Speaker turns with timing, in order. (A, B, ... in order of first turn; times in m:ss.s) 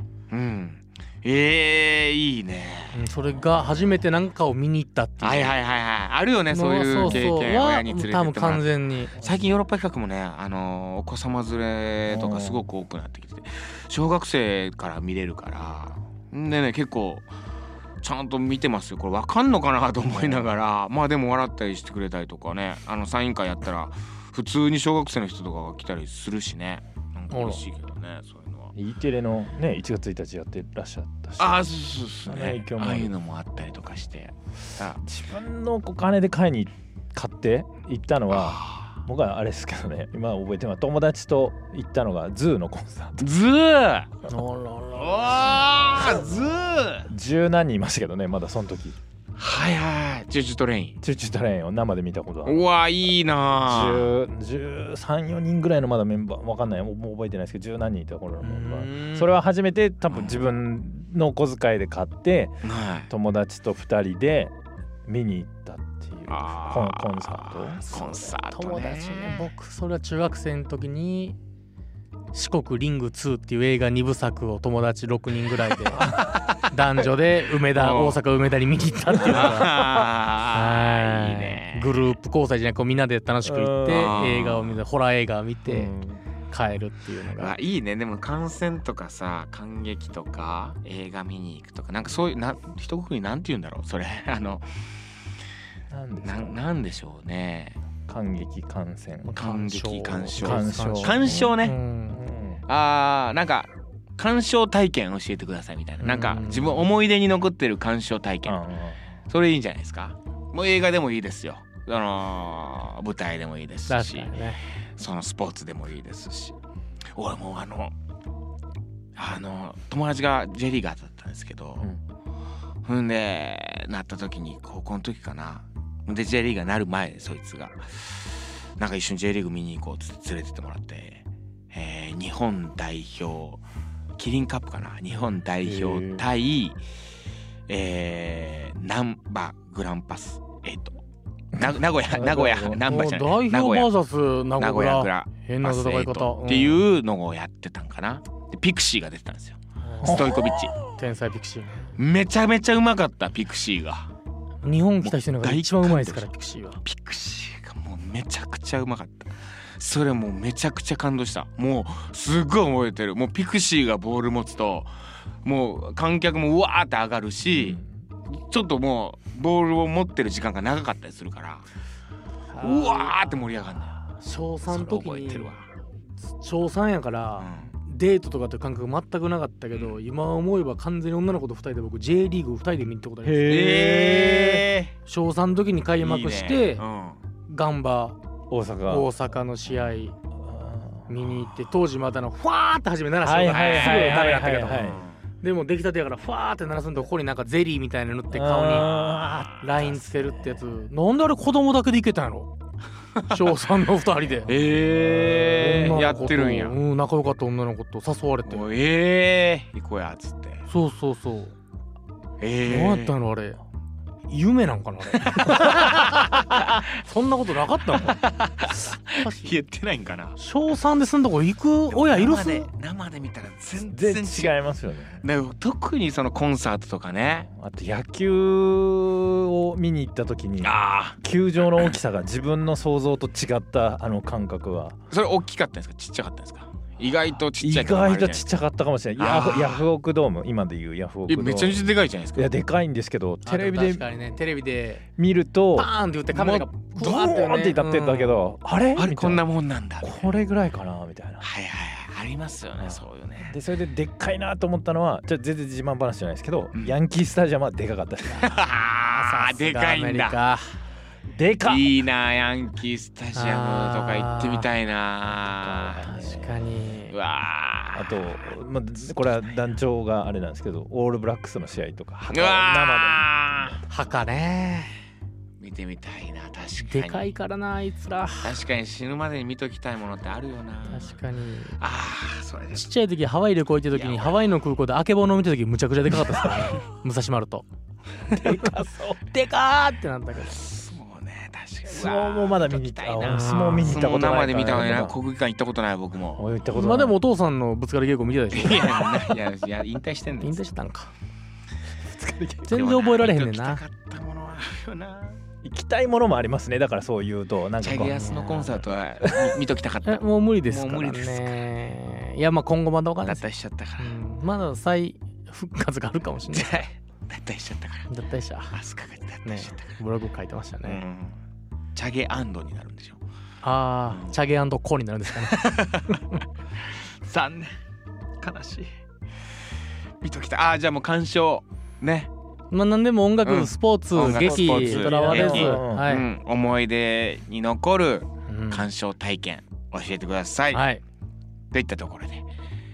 0:00.3-0:03.8 A
0:02.9-0:05.6 B
0:05.2-0:17.3 A
0:06.5-0:09.2 B
0:07.0-0:07.3 C
0:12.1-0:12.6 C
0:18.0-0:28.7 A
0:27.3-0:27.6 B
0:28.8-0:31.7 C
0:31.4-0:35.0 A
0:32.2-0:33.1 C
0:35.0-0:43.3 C
0:38.3-0:39.0 A
0:43.2-0:44.2 A
0:44.3-0:45.6 B
0:45.0-0:47.1 A
0:47.1-0:49.0 C
0:49.4-0:51.0 A
0:51.0-0:52.6 C
0:52.4-0:54.1 A
0:53.7-1:02.5 C
0:58.4-0:59.3 B
1:00.1-1:00.4 A
1:02.6-1:03.1 A
1:03.1-1:04.5 C
1:05.1-1:08.3 C
1:06.3-1:09.5 A
1:08.5-1:11.4 B
1:12.3-1:16.2 B
1:15.9-1:16.4 C
1:16.7-1:19.9 B
1:17.8-1:18.2 A
1:19.2-1:22.1 A
1:20.5-1:25.9 B
1:23.5-1:24.3 C
1:23.9-1:24.8 A
1:25.7-1:26.2 C
1:26.5-1:27.5 B
1:27.4-1:35.0 A
1:35.9-1:36.6 C
1:36.2-1:37.8 A
1:38.1-1:39.4 C
1:39.2-1:42.2 B
1:39.3-1:41.8 A
1:40.4-1:41.6 C
1:42.1-1:42.6 C
1:42.7-1:48.6 A
1:46.0-1:46.9 B
1:48.5-1:49.1 C
1:49.3-1:54.4 A
1:53.9-1:54.6 B
1:55.0-1:56.6 A
1:57.1-1:57.9 A
1:59.2-2:01.9 A
2:02.9-2:13.6 A
2:14.2-2:16.8 A
2:15.6-2:16.2 C
2:17.7-2:21.0 A
2:21.5-2:22.8 C
2:21.6-2:23.9 A
2:22.8-2:26.8 B
2:24.6-2:30.8 A
2:29.8-2:30.3 B
2:31.0-2:31.9 B
2:32.0-2:34.1 A
2:34.6-2:36.8 B
2:35.0-2:44.9 A
2:45.4-2:51.6 A
2:47.6-2:47.9 C
2:52.5-2:53.4 B
2:52.6-2:54.0 A
2:54.2-2:55.6 B
2:54.7-2:55.6 A
2:56.4-3:06.8 B
2:57.4-2:57.7 A
2:59.7-3:00.0 A
3:03.2-3:04.6 C
3:03.4-3:04.9 A
3:06.0-3:07.2 A
3:07.5-3:08.2 B
3:08.5-3:09.1 C
3:08.9-3:10.2 B
3:10.4-3:11.1 C
3:11.1-3:18.9 B
3:13.2-3:15.0 C
3:13.5-3:15.2 A
3:18.3-3:20.6 C
3:19.6-3:22.5 B
3:23.2-3:23.5 A
3:23.3-3:24.5 B
3:24.5-3:26.8 A
3:24.5-3:26.2 C
3:25.4-3:28.7 B
3:28.5-3:30.6 A
3:30.7-3:31.6 B
3:32.4-3:33.1 A
3:32.6-3:33.6 B
3:34.3-3:38.2 B
3:35.2-3:36.8 A
3:37.9-3:40.4 A
3:39.1-3:39.6 B
3:40.4-3:42.7 B
3:41.9-3:44.6 A
3:43.8-3:45.2 C
3:45.2-3:47.5 A
3:47.5-3:55.0 C
3:50.6-3:51.2 A
3:55.1-3:58.6 A
3:57.6-4:04.0 C
3:59.2-3:59.8 A
4:01.3-4:02.5 A
4:03.4-4:05.0 B
4:05.2-4:05.9 C
4:05.8-4:08.5 B
4:06.3-4:06.7 A
4:07.0-4:09.4 C
4:09.0-4:10.3 A
4:10.0-4:11.4 C
4:11.4-4:13.6 A
4:12.8-4:18.5 C
4:18.3-4:20.7 B
4:18.4-4:20.4 A
4:21.3-4:22.0 C
4:21.6-4:26.0 A
4:23.4-4:24.7 B
4:25.5-4:26.7 C
4:26.0-4:27.2 B
4:27.1-4:28.2 A
4:27.9-4:33.3 C
4:32.3-4:33.8 A
4:33.9-4:34.9 B
4:35.6-4:37.3 A
4:36.8-4:38.6 B
4:38.4-4:41.2 A
4:40.9-4:41.8 B
4:41.8-4:42.9 A
4:42.7-4:47.6 B
4:43.9-4:44.5 A
4:48.3-4:50.7 B
4:48.4-4:49.2 C
4:50.5-4:56.4 A
4:51.9-4:55.2 C
4:53.3-4:54.0 B
4:56.4-4:57.2 C
4:56.7-4:59.3 B
4:58.5-5:00.7 A
5:00.4-5:01.1 B
5:02.1-5:02.7 C
5:02.7-5:03.8 B
5:02.7-5:05.4 A
5:05.6-5:08.3 C
5:07.8-5:11.7 A
5:08.1-5:08.8 B
5:09.2-5:09.6 C
5:10.1-5:13.4 B
5:13.2-5:14.1 A
5:14.0-5:16.8 B
5:16.5-5:18.1 A
5:18.1-5:18.7 B
5:18.7-5:20.0 A
5:19.4-5:21.0 B
5:20.8-5:21.4 A
5:22.0-5:23.2 A
5:23.6-5:26.4 B
5:24.1-5:24.4 A
5:25.4-5:26.2 A
5:26.9-5:27.8 A
5:28.4-5:28.9 A
5:30.2-5:32.3 A
5:32.7-5:36.3 B
5:33.4-5:40.8 A
5:34.3-5:36.1 C
5:38.5-5:38.9 B
5:40.7-5:41.0 B
5:41.7-5:42.4 A